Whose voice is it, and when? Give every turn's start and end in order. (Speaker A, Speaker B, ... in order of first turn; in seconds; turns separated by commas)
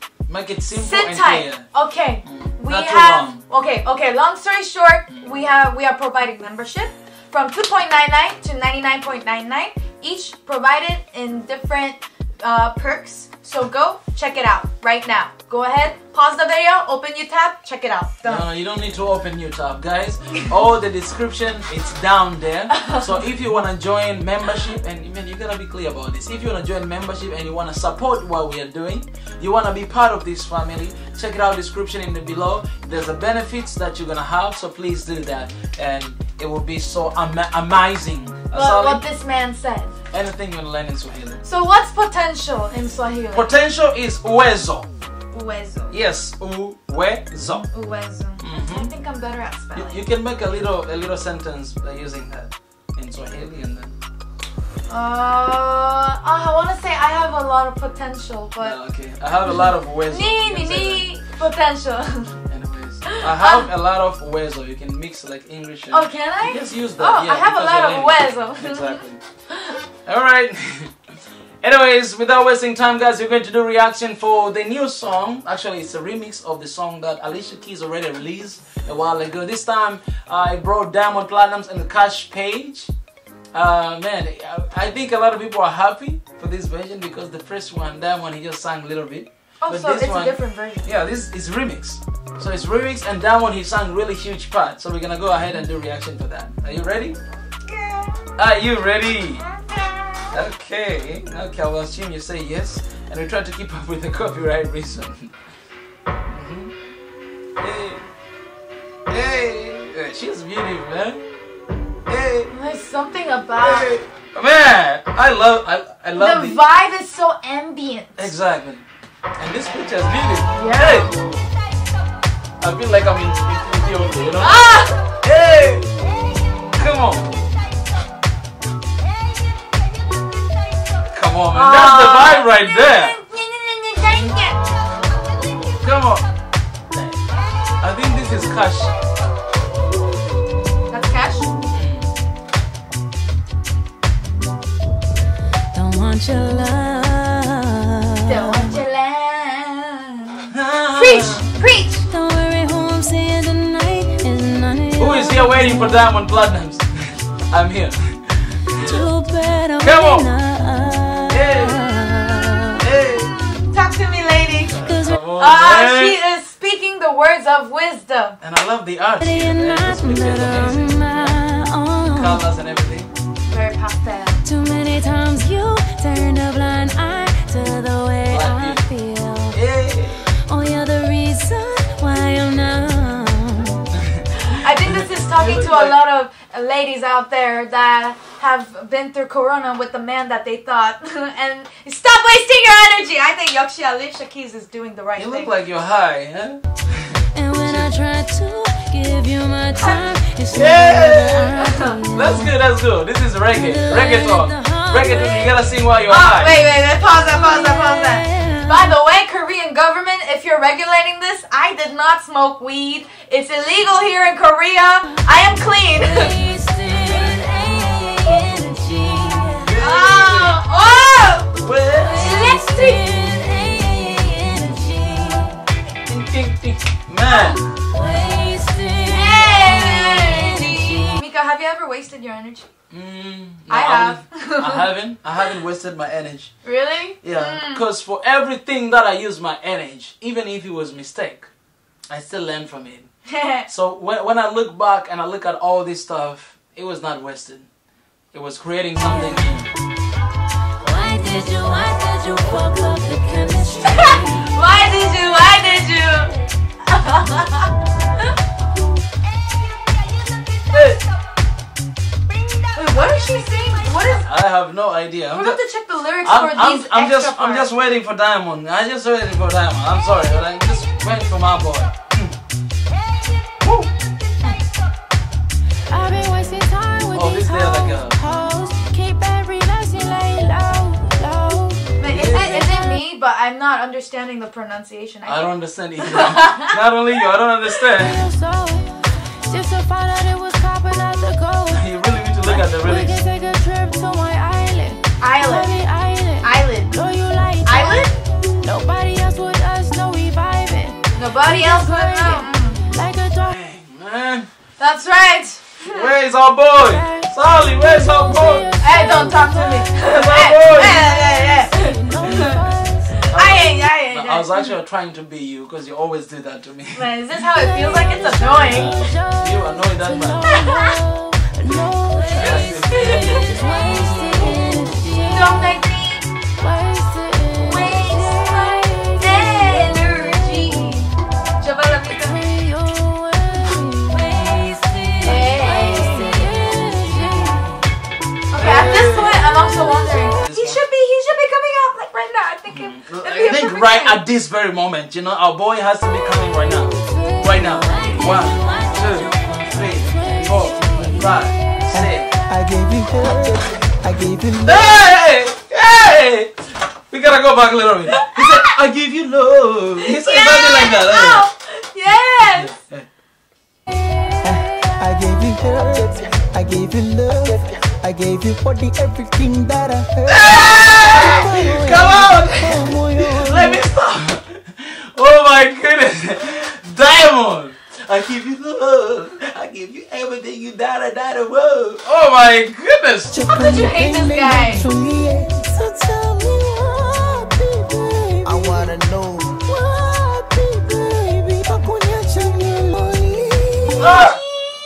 Speaker A: 0.3-1.7, Speaker B: 0.7-18.5, Speaker A: 2.2-3.4, Speaker A: 18.2-39.0, Speaker B: 22.7-23.0, Speaker B: 38.5-39.9, Speaker A: 40.1-41.4, Speaker B: 41.4-43.5, Speaker A: 43.3-44.9, Speaker B: 45.3-46.0, Speaker A: 45.9-47.7, Speaker B: 47.7-50.1, Speaker A: 48.4-48.9, Speaker A: 49.8-54.0, Speaker B: 54.9-58.8, Speaker A: 58.6-61.1, Speaker B: 60.1-62.4, Speaker A: 62.5-69.2, Speaker B: 63.0-63.7, Speaker B: 65.9-69.0, Speaker A: 70.0-71.0, Speaker A: 71.6-82.9, Speaker A: 83.5-97.2, Speaker B: 89.6-90.9, Speaker B: 97.7-98.2, Speaker A: 98.4-99.4, Speaker B: 99.5-100.3, Speaker A: 100.3-105.3, Speaker A: 106.3-106.7, Speaker A: 107.6-108.0, Speaker A: 109.1-111.2, Speaker A: 112.1-112.5, Speaker B: 112.5-113.9, Speaker A: 113.6-116.6, Speaker B: 116.2-118.3, Speaker A: 118.2-118.8, Speaker A: 119.4-121.4, Speaker B: 120.5-121.2, Speaker A: 122.6-125.9, Speaker B: 124.4-125.0, Speaker A: 126.8-127.3, Speaker A: 131.1-133.2, Speaker B: 131.5-134.6, Speaker A: 135.8-136.3, Speaker A: 137.8-138.9, Speaker B: 140.9-141.5, Speaker A: 141.7-142.1, Speaker C: 145.7-148.7, Speaker B: 148.3-152.1, Speaker A: 150.5-151.5, Speaker C: 152.1-156.1, Speaker A: 155.0-159.1, Speaker C: 158.8-162.8, Speaker A: 159.8-160.3, Speaker A: 161.3-161.8, Speaker A: 162.8-163.3, Speaker B: 163.0-168.4, Speaker C: 164.8-165.2, Speaker A: 164.9-166.2, Speaker A: 168.4-171.4, Speaker C: 169.2-172.4, Speaker A: 172.0-173.1, Speaker B: 173.4-174.5, Speaker C: 174.4-179.6, Speaker A: 178.3-178.9, Speaker A: 179.5-180.4, Speaker C: 180.4-183.8, Speaker B: 184.4-195.5, Speaker A: 184.8-186.0, Speaker A: 195.2-197.9, Speaker C: 197.3-202.5, Speaker A: 200.5-201.6, Speaker B: 201.6-202.0, Speaker A: 202.1-206.6, Speaker C: 203.5-205.8, Speaker B: 206.1-216.4, Speaker C: 207.0-208.7, Speaker C: 216.0-219.7, Speaker A: 219.6-220.6, Speaker B: 219.8-221.6, Speaker A: 221.6-222.3, Speaker C: 222.1-225.6, Speaker B: 222.1-223.1, Speaker A: 226.1-227.8, Speaker B: 227.3-227.6, Speaker C: 227.8-231.2, Speaker B: 229.1-232.7, Speaker A: 232.9-236.5, Speaker B: 233.7-234.9, Speaker B: 236.6-237.8, Speaker A: 237.2-241.5, Speaker A: 242.1-243.1, Speaker B: 243.3-243.7, Speaker A: 243.7-247.7, Speaker A: 248.3-249.7, Speaker C: 250.8-254.4, Speaker B: 253.8-257.7, Speaker A: 260.7-261.0, Speaker B: 262.7-264.3, Speaker A: 264.2-265.6, Speaker B: 265.3-267.7, Speaker A: 266.2-272.4, Speaker A: 273.6-273.9, Speaker C: 275.9-282.1, Speaker A: 277.1-278.2, Speaker B: 282.0-286.7, Speaker A: 282.1-282.7, Speaker A: 285.3-288.3, Speaker C: 288.0-291.9, Speaker A: 291.7-293.2, Speaker C: 292.4-303.5, Speaker B: 295.2-295.7, Speaker B: 296.4-297.0, Speaker B: 297.6-298.2, Speaker B: 301.1-302.9, Speaker A: 303.4-304.5, Speaker B: 304.8-306.1, Speaker A: 305.8-308.7, Speaker C: 306.8-309.9, Speaker B: 308.8-312.6, Speaker A: 310.0-311.4, Speaker C: 310.9-313.2, Speaker A: 313.3-317.1, Speaker B: 313.3-314.7, Speaker B: 316.9-319.1, Speaker C: 317.7-325.7, Speaker A: 318.8-320.6, Speaker B: 320.5-321.0, Speaker A: 322.3-323.5, Speaker B: 322.4-323.6, Speaker B: 325.2-326.3, Speaker C: 326.6-329.9, Speaker B: 327.6-332.4, Speaker C: 332.2-337.8, Speaker B: 335.2-336.6, Speaker B: 338.5-344.2, Speaker A: 338.6-339.7, Speaker A: 340.3-340.8, Speaker A: 342.7-352.4, Speaker C: 347.0-351.5, Speaker D: 351.9-355.0, Speaker A: 354.6-356.5, Speaker A: 357.1-361.5, Speaker B: 358.1-358.6, Speaker B: 360.0-362.8, Speaker A: 362.4-363.1, Speaker D: 364.4-373.8, Speaker A: 370.3-383.5, Speaker D: 383.3-394.3, Speaker B: 383.5-384.9, Speaker A: 394.0-394.4